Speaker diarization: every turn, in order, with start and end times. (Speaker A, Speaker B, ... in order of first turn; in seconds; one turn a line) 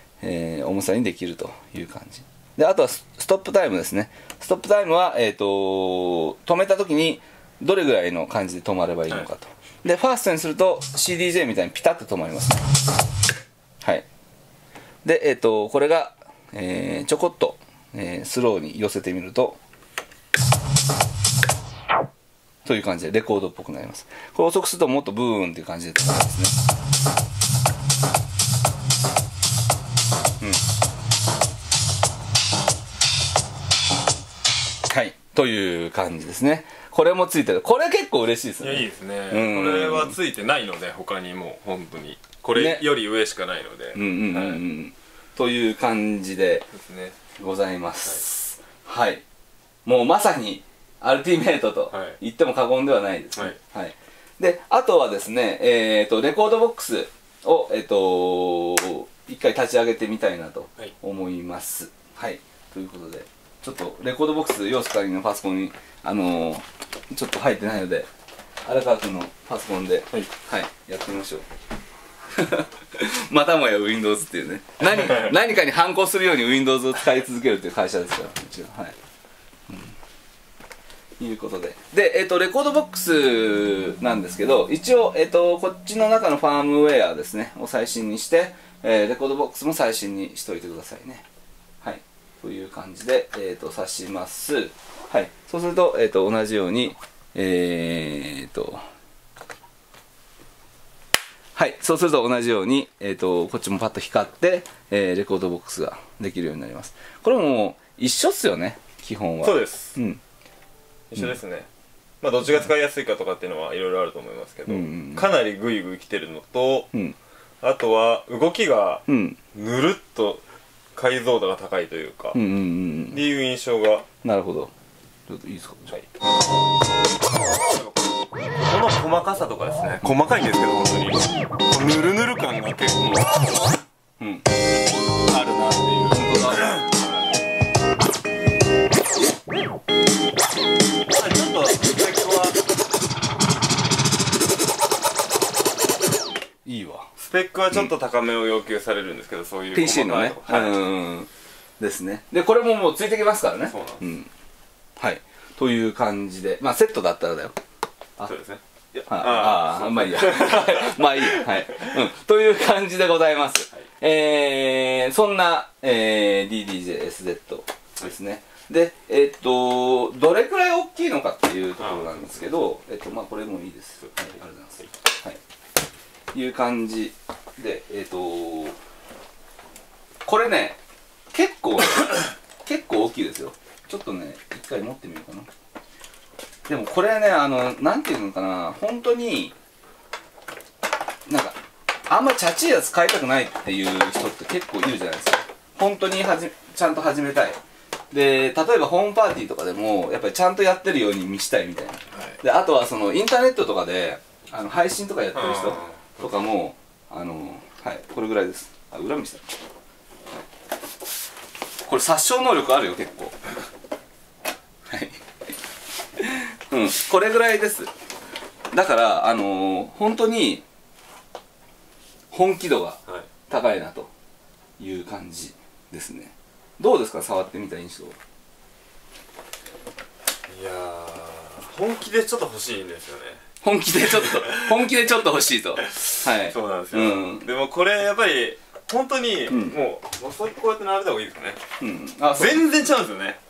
Speaker A: 0.2-12.7
Speaker A: 15.0-19.6
Speaker A: 22.6-26.5
Speaker A: 34.9-40.2
Speaker B: 38.6-44.6
Speaker A: 42.5-42.9
Speaker A: 43.9-46.7
Speaker B: 46.7-47.2
Speaker A: 47.4-49.2
Speaker A: 49.9-68.1
Speaker B: 51.9-52.2
Speaker A: 68.7-71.5
Speaker A: 72.3-79.0
Speaker B: 75.0-75.3
Speaker A: 79.7-80.0
Speaker A: 81.2-91.2
Speaker A: 91.8-98.8
Speaker A: 101.6-110.2
Speaker B: 109.4-110.0
Speaker B: 111.1-111.7
Speaker B: 112.2-116.9
Speaker A: 114.7-115.3
Speaker B: 117.6-120.4
Speaker A: 119.1-119.4
Speaker B: 121.0-122.4
Speaker A: 122.3-123.2
Speaker B: 123.1-124.0
Speaker A: 124.2-124.7
Speaker A: 125.3-126.0
Speaker B: 127.5-133.4
Speaker A: 134.2-134.4
Speaker B: 135.3-137.2
Speaker A: 136.1-136.8
Speaker B: 141.1-142.6
Speaker A: 146.7-147.1
Speaker B: 147.2-150.8
Speaker A: 149.7-154.3
Speaker B: 153.7-154.0
Speaker A: 155.0-157.6
Speaker B: 158.2-161.9
Speaker A: 158.9-175.4
Speaker B: 171.8-172.2
Speaker A: 176.3-178.8
Speaker A: 180.2-180.8
Speaker A: 181.3-185.5
Speaker A: 186.7-189.6
Speaker A: 191.3-197.6
Speaker A: 198.1-209.4
Speaker B: 202.1-202.4
Speaker B: 205.3-206.0
Speaker A: 211.8-213.5
Speaker A: 214.9-215.2
Speaker A: 216.2-217.9
Speaker A: 218.7-220.7
Speaker A: 222.3-224.1
Speaker A: 224.8-228.2
Speaker B: 230.5-233.4
Speaker A: 233.6-237.5
Speaker B: 234.0-234.9
Speaker B: 235.8-241.6
Speaker A: 239.5-239.8
Speaker A: 241.8-242.7
Speaker B: 242.3-243.4